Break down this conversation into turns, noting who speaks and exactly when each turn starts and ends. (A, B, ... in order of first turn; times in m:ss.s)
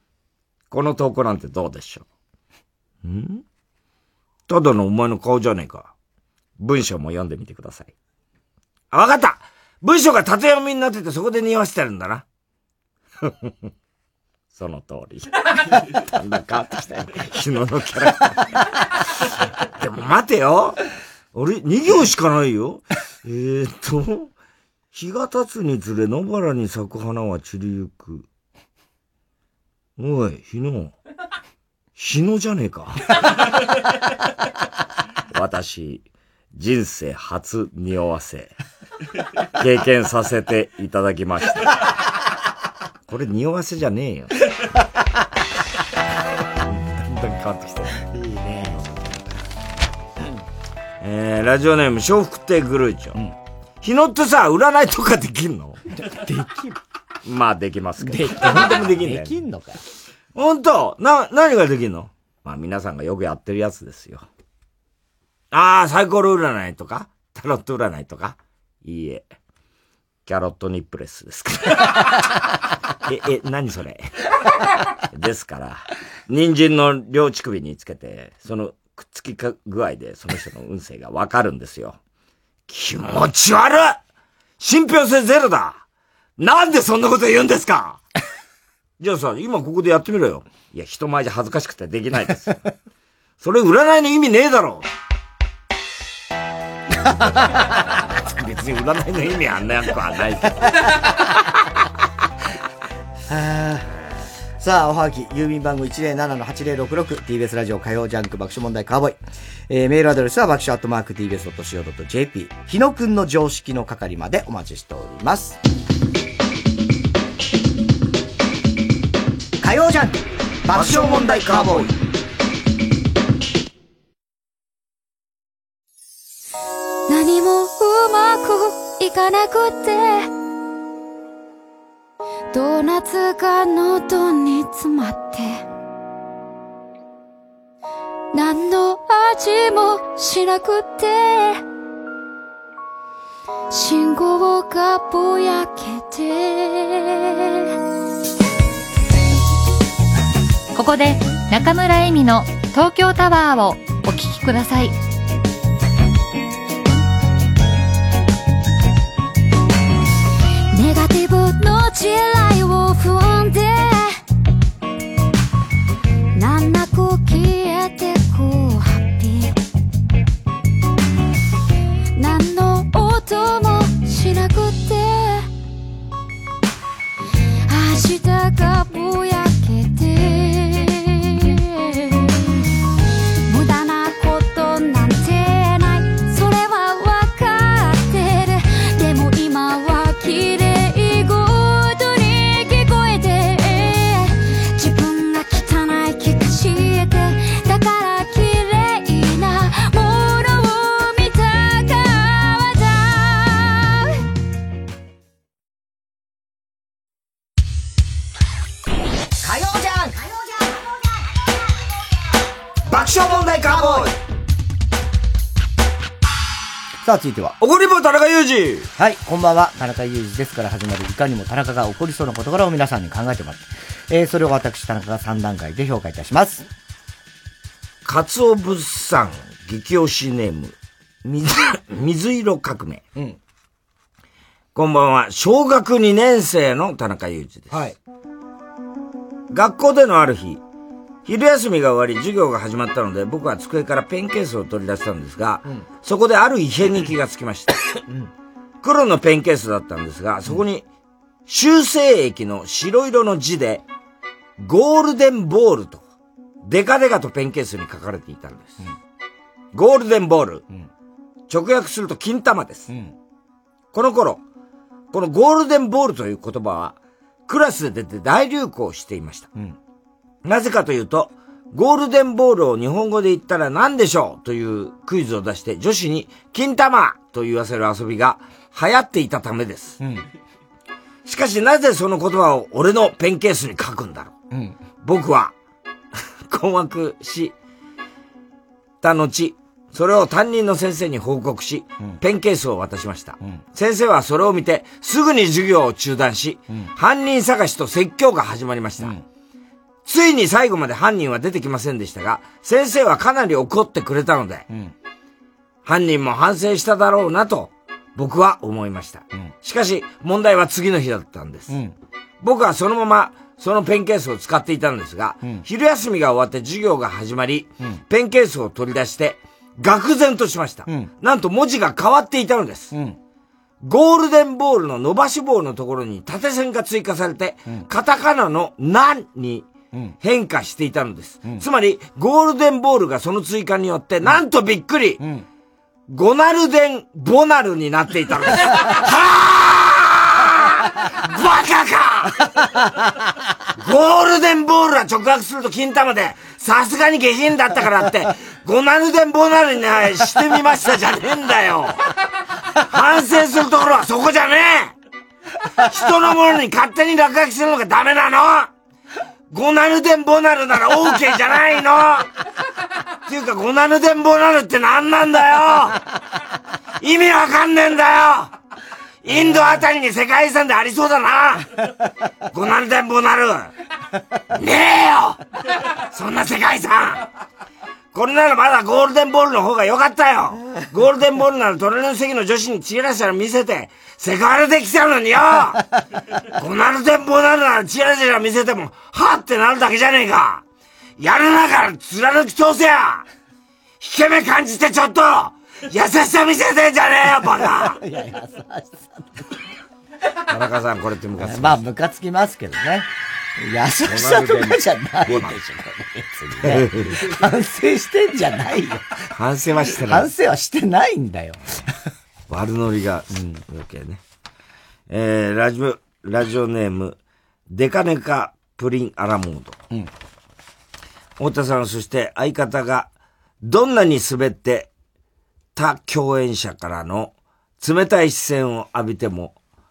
0:00.7-0:02.0 A
0:03.0-0:03.4 A
0:04.5-0:05.9 A
0:06.6-0:07.9 A
0:08.9-0:12.2 A
0:13.2-0:13.5 A
0:14.5-0:20.8 A
0:21.3-0:24.3 A
0:24.9-0:28.3 A
0:30.0-0:30.9 A
0:32.0-0:33.1 A
0:35.3-0:38.5 A
0:39.6-0:41.8 A
0:43.1-0:44.3 A
0:46.6-0:48.1 A
0:48.1-0:48.8 B
0:48.6-0:49.4 A
0:51.0-0:53.2 A
0:53.8-0:55.8 A
0:55.9-0:56.8 B
0:57.2-0:59.4 A
0:58.0-0:59.8 B
1:00.3-1:04.3 A
1:05.5-1:09.3 A
1:10.2-1:12.3 A
1:13.0-1:14.1 A
1:15.1-1:22.0 A
1:22.7-1:24.0 A
1:24.6-1:25.8 A
1:26.4-1:28.0 A
1:29.0-1:32.6 A
1:33.4-1:34.9 A
1:38.0-1:40.9 A
1:43.3-1:43.9 B
1:44.6-1:55.6 B
1:59.6-2:01.9 B
2:00.7-2:02.0 A
2:07.1-2:10.3 C
2:12.5-2:15.6 C
2:18.3-2:21.6 C
2:23.7-2:27.7 C
2:30.7-2:35.0 D
2:40.7-2:44.2 C
2:46.4-2:49.6 C
2:52.1-2:55.5 C
2:57.7-3:02.4 C
3:03.5-3:24.2 C
3:29.4-3:30.3 B
3:32.9-3:34.2 A
3:37.0-3:37.6 B
3:37.6-3:38.9 A
3:39.0-3:46.6 B
3:48.0-3:53.0 A
3:54.7-3:57.8 A
3:57.7-3:58.0 B
3:59.5-4:00.6 A
4:01.2-4:07.8 A
4:08.8-4:10.8 A
4:11.5-4:13.8 A
4:14.6-4:16.0 A
4:16.6-4:18.8 A
4:19.7-4:20.6 A
4:21.5-4:22.9 A
4:23.9-4:24.4 A
4:25.1-4:29.5 A
4:30.4-4:40.0 A
4:40.0-4:40.2 B
4:41.2-4:44.3 A
4:44.5-4:44.8 B
4:45.0-4:45.5 A
4:46.5-4:47.5 A
4:49.0-4:59.2 A
5:00.0-5:04.7 A
5:05.8-5:11.8 A
5:11.7-5:11.9 B
5:12.4-5:22.9 A
5:23.8-5:29.7 A
5:30.2-5:35.2 A
5:36.1-5:42.5 A
5:43.8-5:52.0 A
5:52.8-5:54.9 A
5:55.8-5:58.7 A
5:59.5-6:02.3 A
6:03.2-6:06.0 A
6:07.0-6:08.5 A
6:09.2-6:11.8 A
6:12.5-6:13.7 A
6:14.5-6:15.4 A
6:16.0-6:17.2 A
6:18.1-6:25.8 A
6:26.6-6:30.6 A
6:31.2-6:33.2 A
6:34.0-6:38.0 A
6:38.0-6:39.2 B
6:40.5-6:41.8 A
6:41.4-6:49.2 B
6:44.0-6:45.6 A
6:46.6-6:47.3 A
6:49.3-6:50.3 A
6:50.1-6:51.6 B
6:52.5-6:54.2 A
6:53.3-6:53.6 B
6:55.1-6:57.2 A
6:57.7-6:59.8 A
7:01.4-7:04.9 A
7:05.8-7:09.6 A